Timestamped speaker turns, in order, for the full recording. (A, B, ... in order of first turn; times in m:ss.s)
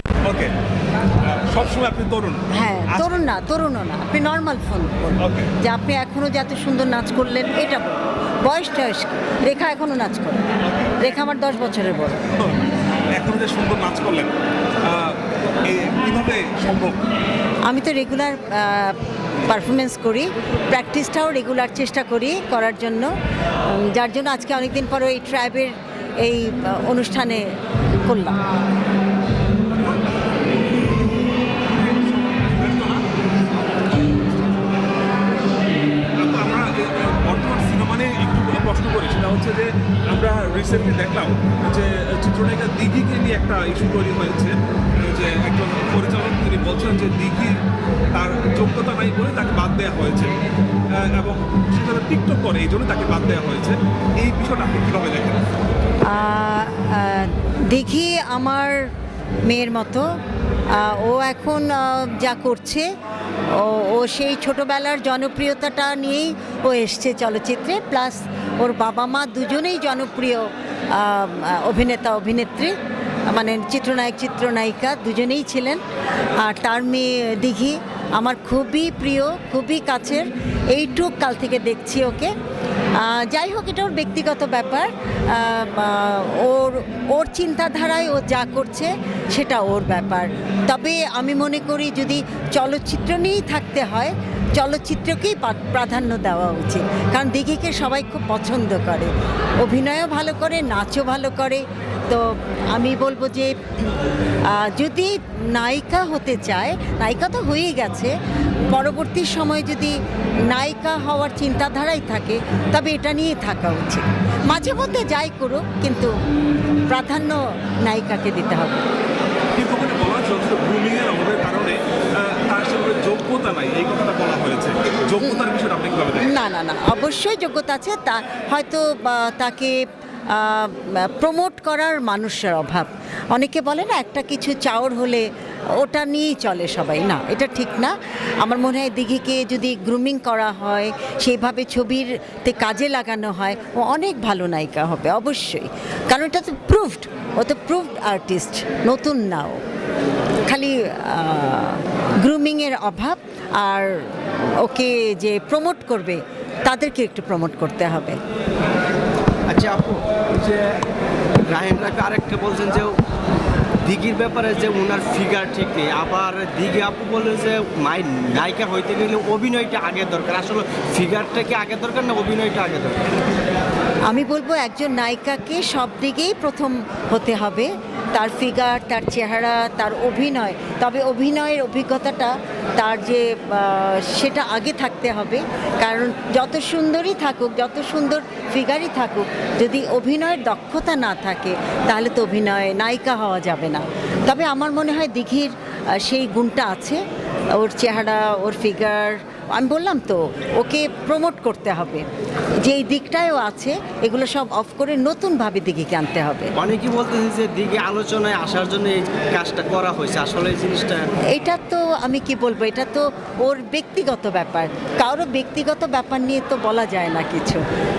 0:00.2-0:00.5 A
0:01.3-0:03.2 A
0:02.5-0:10.4 B
0:05.2-0:05.5 A
0:10.6-0:11.1 A
0:11.0-0:12.2 B
0:12.4-0:12.6 A
0:13.2-0:14.3 A
0:14.8-0:17.0 A
0:17.7-0:23.1 B
0:23.6-0:28.4 B
0:31.7-0:33.1 A
0:36.2-0:47.6 A
0:48.1-0:50.3 A
0:50.9-0:55.4 A
0:56.1-0:58.9 B
0:59.5-1:00.1 B
1:00.7-1:02.9 B
1:03.5-1:12.8 B
1:13.3-1:15.8 B
1:16.4-1:22.3 B
1:23.0-1:48.1 B
1:48.7-1:56.1 B
1:56.9-1:58.8 B
1:59.6-2:06.3 A
2:06.2-2:09.8 B
2:10.3-2:15.2 B
2:15.8-2:29.6 B
2:30.5-2:38.2 B
2:39.5-2:40.8 C
2:41.5-2:43.0 C
2:43.8-2:53.0 C
2:54.1-3:17.0 B
3:17.5-3:22.1 B
3:22.6-3:26.5 B
3:26.6-3:31.1 C
3:31.3-3:37.6 B